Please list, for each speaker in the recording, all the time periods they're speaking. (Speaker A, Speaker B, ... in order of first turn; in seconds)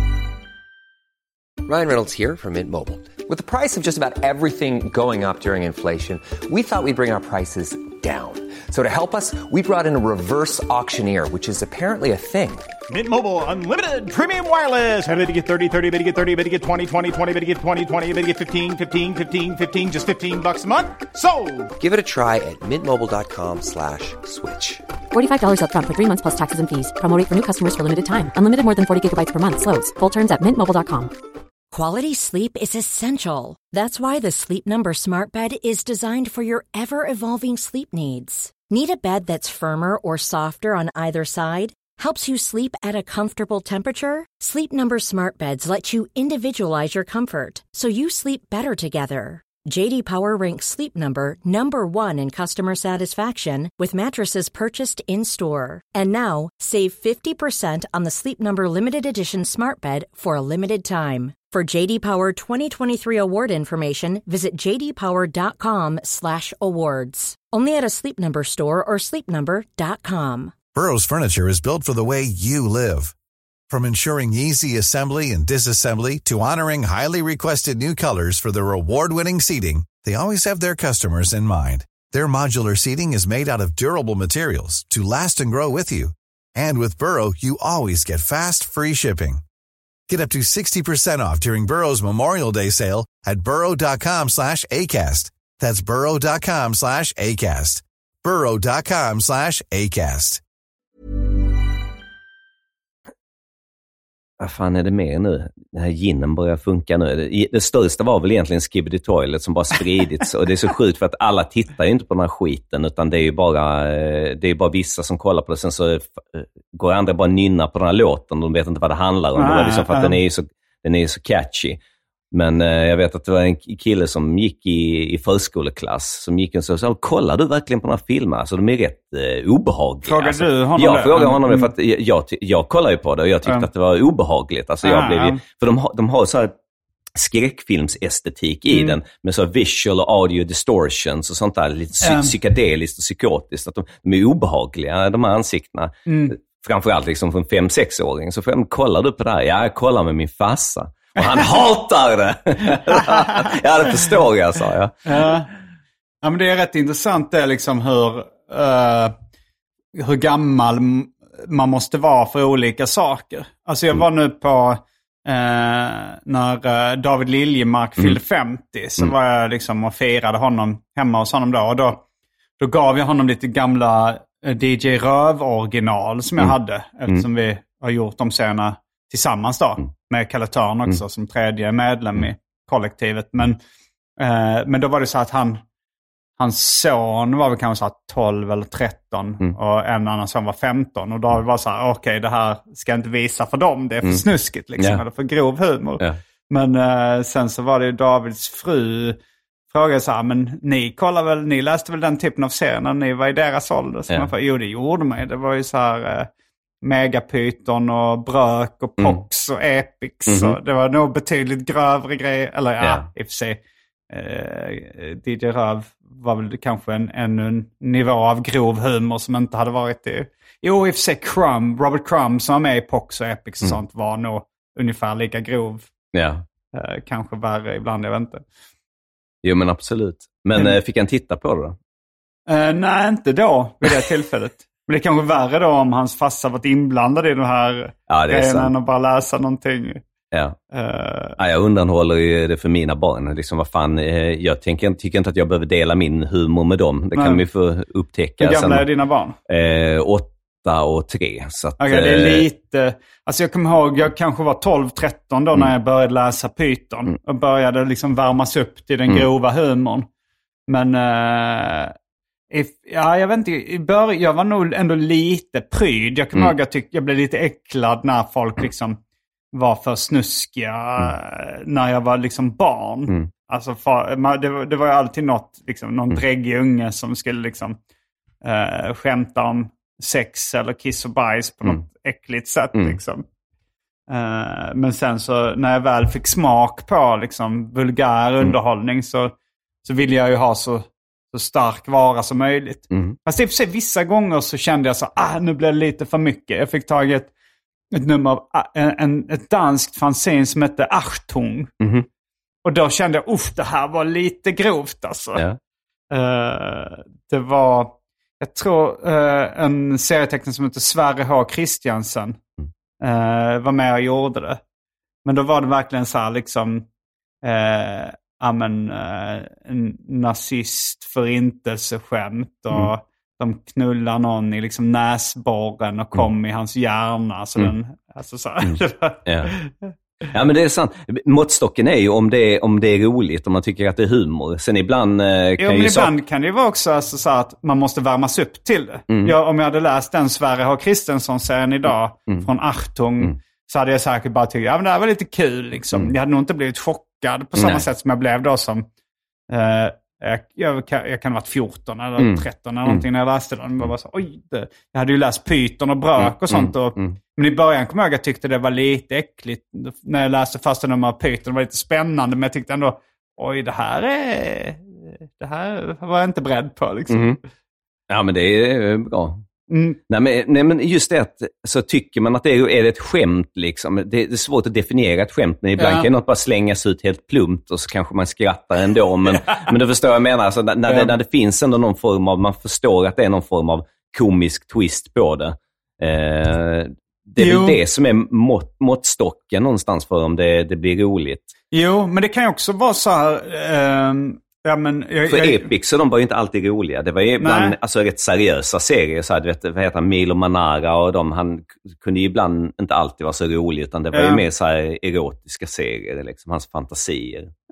Speaker A: 1.6-12.7, 21.8-24.8
Speaker B: 12.9-21.7
Speaker C: 25.1-31.1
Speaker D: 31.7-70.5
Speaker E: 70.7-73.1, 73.7-89.4, 90.1-100.4
Speaker F: 104.4-121.8, 122.3-136.5, 137.1-155.3, 194.8-195.0, 210.3-210.6, 212.8-213.1, 226.1-226.4, 229.4-231.8, 238.1-238.7, 240.3-240.6, 241.4-248.9, 249.5-252.5, 282.7-283.0, 292.9-293.1, 301.8-302.1, 328.6-329.5, 330.3-336.1, 339.1-339.3, 347.6-347.8, 352.2-353.0, 356.2-357.1, 367.1-367.4, 368.1-369.4, 370.1-391.5, 395.3-407.5
Speaker G: 119.3-120.2, 130.0-131.7, 134.8-135.4, 138.7-139.0, 142.0-142.3, 146.1-146.3, 152.9-153.3, 155.1-155.5, 156.2-159.1, 159.9-172.0, 172.6-183.6, 184.2-185.6, 186.4-199.2, 199.7-206.3, 206.8-225.9, 226.7-228.4, 232.5-240.0, 240.7-241.4, 247.1-247.4, 248.4-249.3, 251.8-260.1, 260.7-261.9, 262.5-269.0, 269.5-277.8, 278.4-283.2, 284.1-289.3, 289.8-297.3, 297.9-301.7, 302.6-305.4, 306.1-312.4, 313.0-314.6, 315.2-316.9, 317.4-329.9, 335.6-348.9, 349.5-364.9, 365.4-367.4, 369.7-370.0, 375.8-376.1, 380.9-381.1, 387.4-387.8, 391.7-395.7, 397.4-397.8, 404.1-404.4